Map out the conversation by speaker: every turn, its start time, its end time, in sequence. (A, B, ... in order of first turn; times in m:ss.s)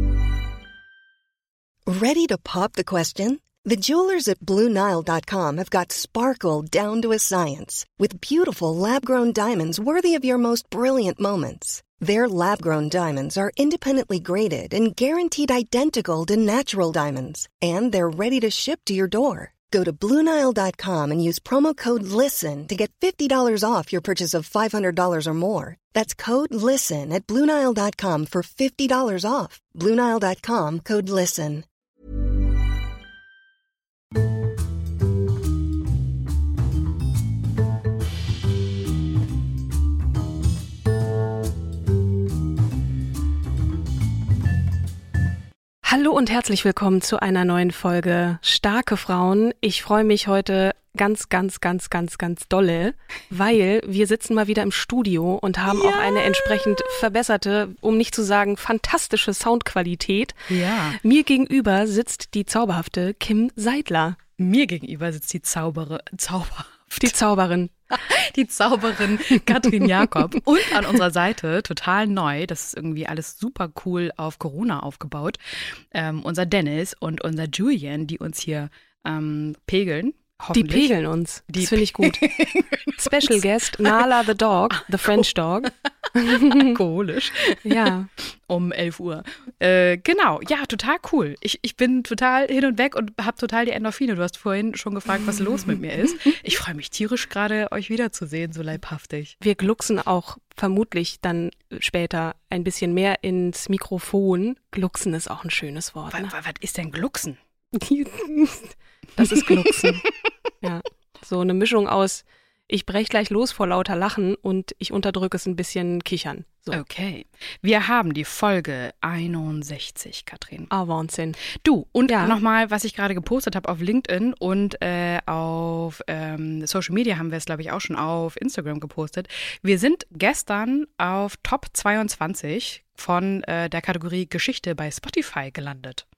0:01.9-0:31.7 A
0:45.8-1:04.2 B
0:55.9-0:56.3 C
1:00.5-1:01.0 C
1:04.4-1:07.1 C
1:07.0-1:07.7 B
1:07.9-1:20.9 C
1:20.5-1:22.2 B
1:21.5-1:24.0 C
1:23.0-1:26.8 B
1:26.3-1:39.4 C
1:27.6-1:28.1 B
1:39.4-1:46.3 B
1:46.1-1:47.4 C
1:47.7-1:50.1 B
1:50.6-1:56.8 B
1:56.7-2:00.7 C
2:00.7-2:01.4 B
2:01.5-2:16.0 C
2:02.1-2:02.4 B